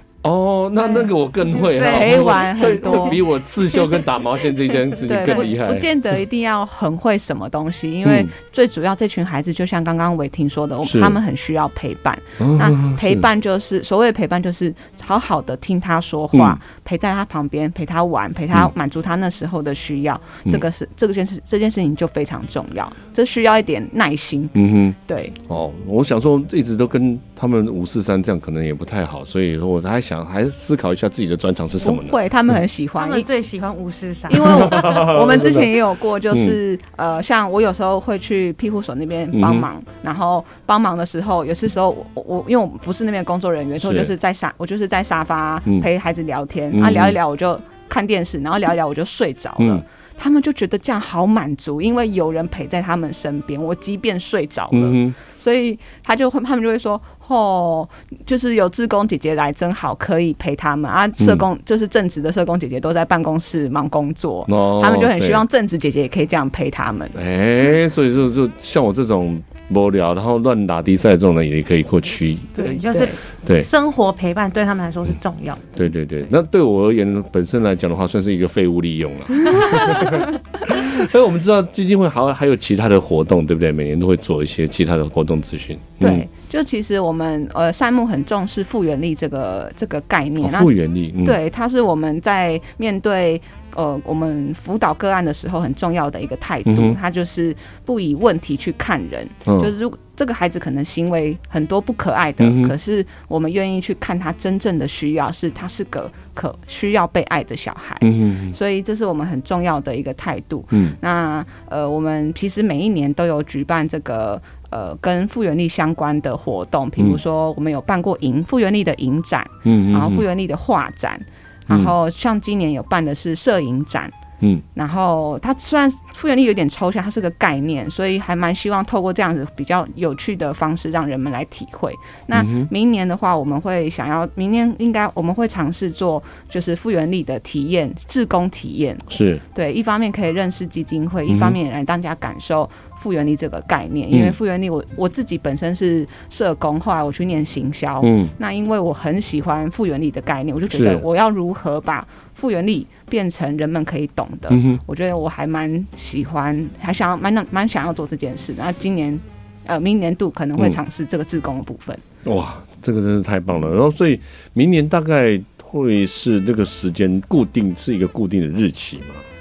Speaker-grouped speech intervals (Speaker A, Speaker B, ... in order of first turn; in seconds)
Speaker A: 0.2-5.9, 8.0-8.3, 10.8-11.2, 12.4-13.3, 16.3-16.6, 24.5-25.0, 25.5-32.2, 34.5-35.7, 36.3-36.6, 39.3-39.7, 43.8-44.1, 46.7-47.2, 49.6-49.8, 54.7-55.2, 61.2-61.5, 64.5-65.4, 67.1-72.8, 75.8-86.3, 90.4-91.4, 96.6-97.0, 99.5-99.7, 102.4-102.7, 108.0-108.6, 119.6-120.2, 132.3-132.7, 139.1-139.4, 141.3-141.6, 144.1-144.4, 148.0-148.3, 150.7-151.1, 154.5-154.8, 162.2-169.2
Speaker B: 1.7-3.1, 33.0-35.1, 72.6-75.8
Speaker C: 1.8-3.2, 5.0-25.4, 31.8-33.3, 34.3-67.2, 72.8-73.2, 86.0-124.1, 124.7-162.0